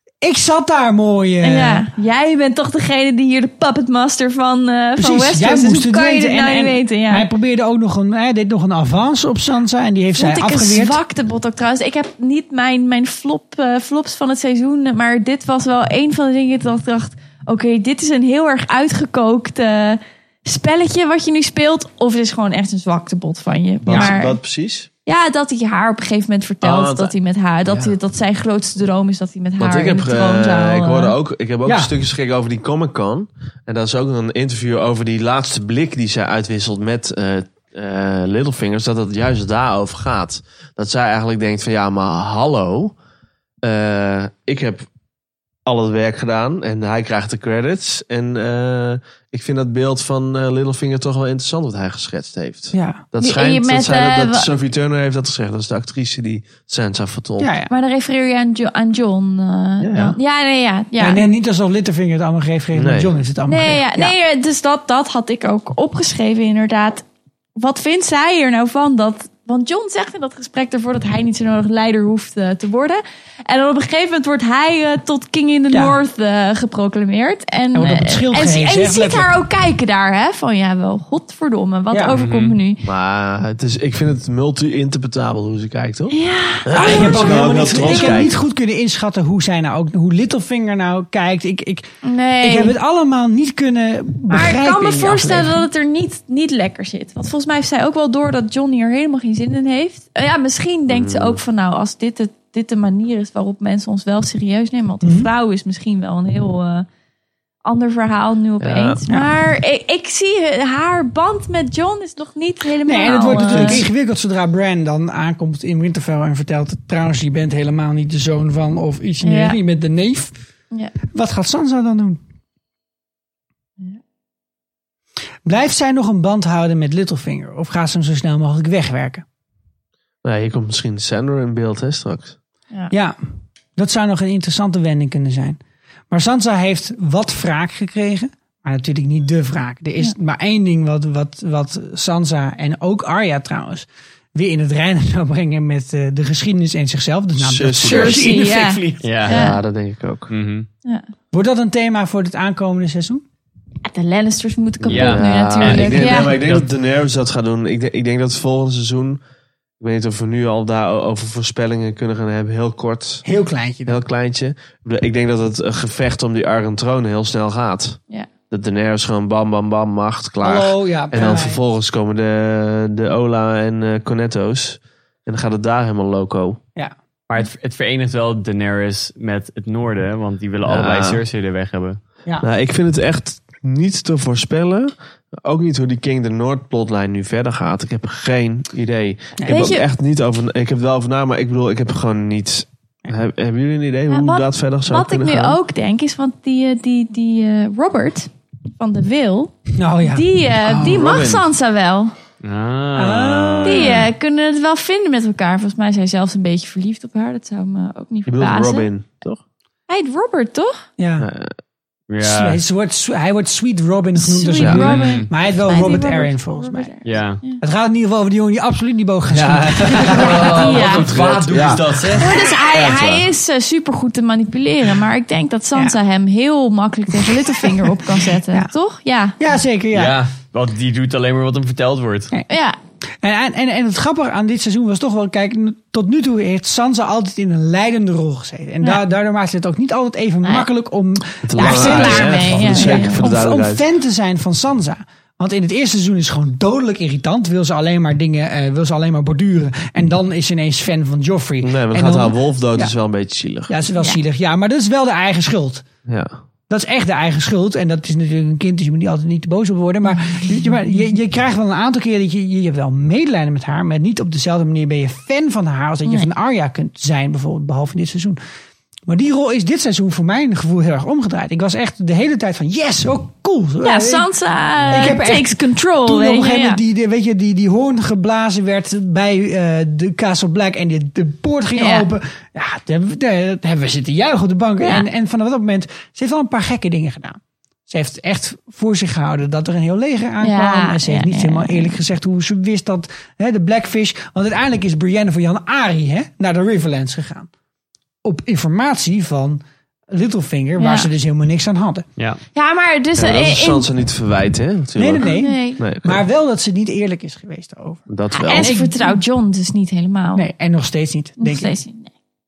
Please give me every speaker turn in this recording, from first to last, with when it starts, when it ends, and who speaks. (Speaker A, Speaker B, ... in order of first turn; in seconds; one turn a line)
Speaker A: 0.2-1.9
Speaker B: 1.4-7.3
Speaker A: 5.0-11.0
Speaker B: 10.2-24.4
Speaker C: 23.8-24.9
Speaker A: 23.9-24.1
Speaker B: 25.1-31.1
Speaker C: 26.6-27.1
Speaker C: 27.6-27.9
Speaker C: 29.6-42.9
Speaker A: 31.6-31.9
Speaker C: 43.6-44.9
Speaker C: 45.6-57.5
Speaker A: 52.7-53.0
Speaker B: 53.2-54.5
Speaker A: 57.4-57.7
Speaker B: 57.7-61.2
Speaker C: 59.8-60.2
Speaker A: 61.0-64.1
Speaker C: 62.7-63.2
Speaker B: 63.5-67.0
Speaker B: 67.6-82.8
Speaker A: 75.7-76.0
Speaker A: 77.7-79.3
Speaker A: 81.9-82.2
Speaker D: 82.2-82.6
Speaker C: 82.8-88.3
Speaker B: 86.1-88.3
Speaker A: 86.7-91.9
Speaker B: 92.0-92.7
Speaker A: 92.4-95.6
Speaker B: 94.3-106.8
Speaker C: 100.9-101.4
Speaker A: 105.0-105.3
Speaker B: 107.6-113.8
Speaker C: 108.6-109.0
Speaker A: 112.8-120.3
Speaker B: 119.2-119.6
Speaker A: 121.1-122.2
Speaker A: 125.5-129.2
Speaker C: 130.2-132.3
Speaker A: 132.9-133.2
Speaker A: 133.8-135.6
Speaker A: 136.1-149.2
Speaker C: 147.4-148.5
Speaker B: 147.8-149.6
Speaker D: 149.0-149.4
Speaker C: 149.2-150.3
Speaker D: 150.3-150.7
Speaker A: 151.3-153.2
Speaker B: 153.8-156.4
Speaker C: 154.8-159.2
Speaker D: 154.9-156.7
Speaker C: 159.8-163.2
Speaker A: 163.2-164.0
Speaker C: 163.8-168.0
Speaker C: 168.5-176.6
Speaker A: 170.4-171.6
Speaker D: 177.3-182.0
Speaker C: 180.6-181.2
Speaker C: 182.4-195.6
Speaker B: 189.5-189.8
Speaker B: 194.1-202.1
Speaker A: 199.8-201.0
Speaker C: 200.7-201.4
Speaker D: 202.4-204.1
Speaker A: 202.9-204.0
Speaker B: 203.6-208.9
Speaker C: 208.2-209.4
Speaker B: 209.9-210.8
Speaker A: 211.0-211.3
Speaker C: 211.2-211.5
Speaker D: 212.1-212.6
Speaker A: 212.2-216.9
Speaker B: 214.2-217.6
Speaker C: 214.6-214.9
Speaker D: 214.8-215.3
Speaker D: 217.0-217.4
Speaker A: 217.6-220.5
Speaker C: 219.3-222.2
Speaker D: 219.9-223.2
Speaker B: 220.5-221.1
Speaker B: 222.2-229.4
Speaker C: 222.7-223.2
Speaker A: 227.3-227.8
Speaker A: 229.4-230.2
Speaker D: 229.9-232.3
Speaker B: 232.5-232.8
Speaker A: 233.2-252.9
Speaker C: 241.4-243.8
Speaker B: 241.6-243.2
Speaker C: 251.6-253.7
Speaker A: 253.7-255.8
Speaker C: 256.1-256.3
Speaker A: 256.7-268.4
Speaker A: 269.1-274.2
Speaker B: 273.8-276.8
Speaker A: 274.9-297.5
Speaker B: 281.8-282.1
Speaker B: 284.8-285.1
Speaker B: 290.4-291.9
Speaker A: 298.2-302.1
Speaker B: 300.8-301.1
Speaker B: 302.5-303.9
Speaker C: 303.2-306.2
Speaker A: 305.0-309.2
Speaker B: 305.2-305.8
Speaker C: 308.1-308.7
Speaker B: 308.3-310.4
Speaker A: 310.3-311.7
Speaker B: 311.4-312.1